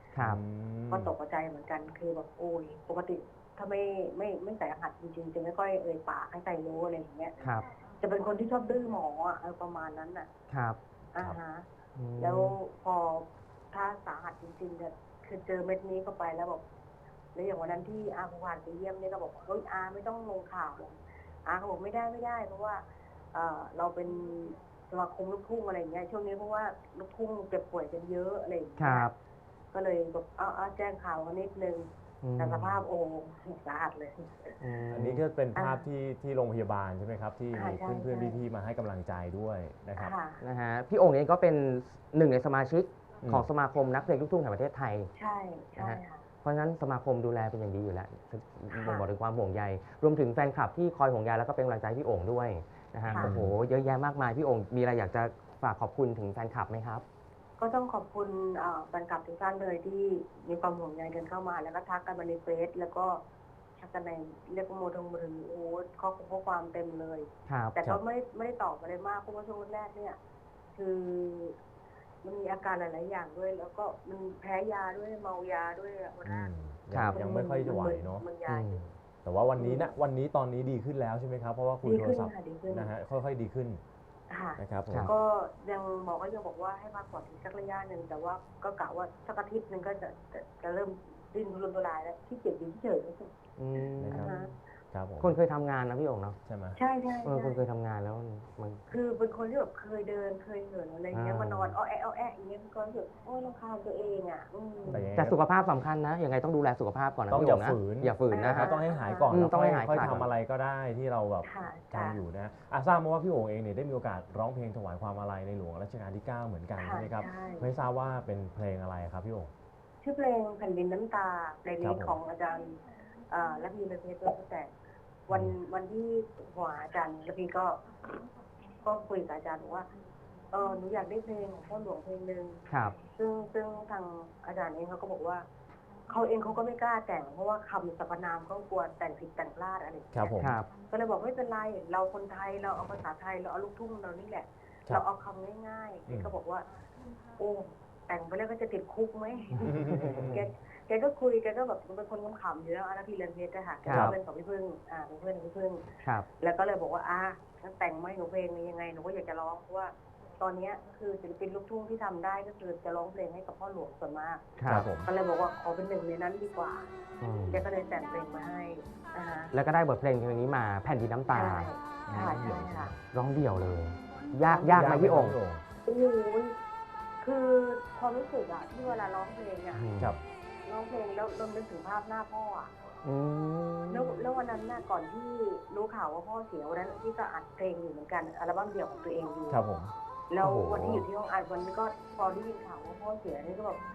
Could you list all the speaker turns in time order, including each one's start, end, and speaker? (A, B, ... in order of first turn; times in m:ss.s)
0:00.1-0:00.4 A
0:00.2-0:01.1 B
0:00.9-0:07.4 C
0:07.4-0:07.7 A
0:08.0-0:10.3 C
0:10.5-0:10.8 A
0:11.1-0:11.7 C
0:12.0-0:12.6 A
0:12.2-0:16.6 C
0:17.4-0:29.1 C
0:28.8-0:29.1 A
0:29.7-0:31.9 C
0:32.2-0:32.8 A
0:32.4-0:34.6 C
0:34.6-0:35.2 A
0:34.9-0:40.1 B
0:35.6-0:35.8 C
0:37.5-0:38.4 C
0:40.0-0:40.4 C
0:40.4-0:45.1 A
0:45.2-0:46.2 C
0:45.8-0:57.0 A
0:48.7-0:49.1 C
0:53.1-0:53.3 C
0:53.2-0:53.6 B
0:57.6-1:03.2 C
1:03.8-1:10.2 C
1:07.5-1:07.8 A
1:10.8-1:11.6 C
1:12.2-1:16.5 C
1:16.2-1:18.3 B
1:16.9-1:17.2 A
1:17.1-1:18.8 C
1:18.5-1:18.9 A
1:19.2-1:23.8 B
1:19.6-1:19.9 C
1:21.8-1:22.9 C
1:24.3-1:33.3 C
1:24.6-1:25.1 B
1:33.6-1:34.4 A
1:34.0-1:34.4 B
1:34.1-1:34.5 C
1:34.9-1:35.4 B
1:35.2-1:36.4 A
1:36.4-1:36.8 B
1:36.8-1:37.6 C
1:37.2-1:38.8 A
1:38.9-1:45.1 C
1:41.1-1:41.8 A
1:44.9-1:45.4 B
1:45.1-1:48.8 A
1:47.3-1:59.5 B
1:48.3-1:49.4 C
1:49.3-1:50.3 A
1:51.4-1:52.2 C
1:56.8-1:57.7 C
2:00.0-2:04.7 C
2:01.8-2:02.2 B
2:05.3-2:07.8 C
2:08.8-2:09.9 C
2:10.5-2:15.4 C
2:12.7-2:13.0 A
2:16.1-2:26.7 C
2:20.1-2:20.6 B
2:20.4-2:20.7 A
2:27.4-2:35.9 C
2:29.6-2:30.4 B
2:33.9-2:34.1 B
2:33.9-2:34.2 A
2:36.4-2:46.9 C
2:44.6-2:44.9 A
2:44.7-2:45.1 B
2:47.2-2:47.6 A
2:47.5-2:49.5 C
2:49.5-2:52.4 A
2:51.3-2:52.9 C
2:52.1-2:53.0 B
2:53.1-2:55.4 A
2:54.5-2:55.6 B
2:55.8-2:56.6 C
2:57.2-2:59.9 C
2:59.7-3:00.2 A
3:00.7-3:02.7 C
3:03.0-3:04.2 A
3:03.9-3:09.6 C
3:09.5-3:09.9 B
3:10.3-3:13.8 C
3:10.4-3:11.0 A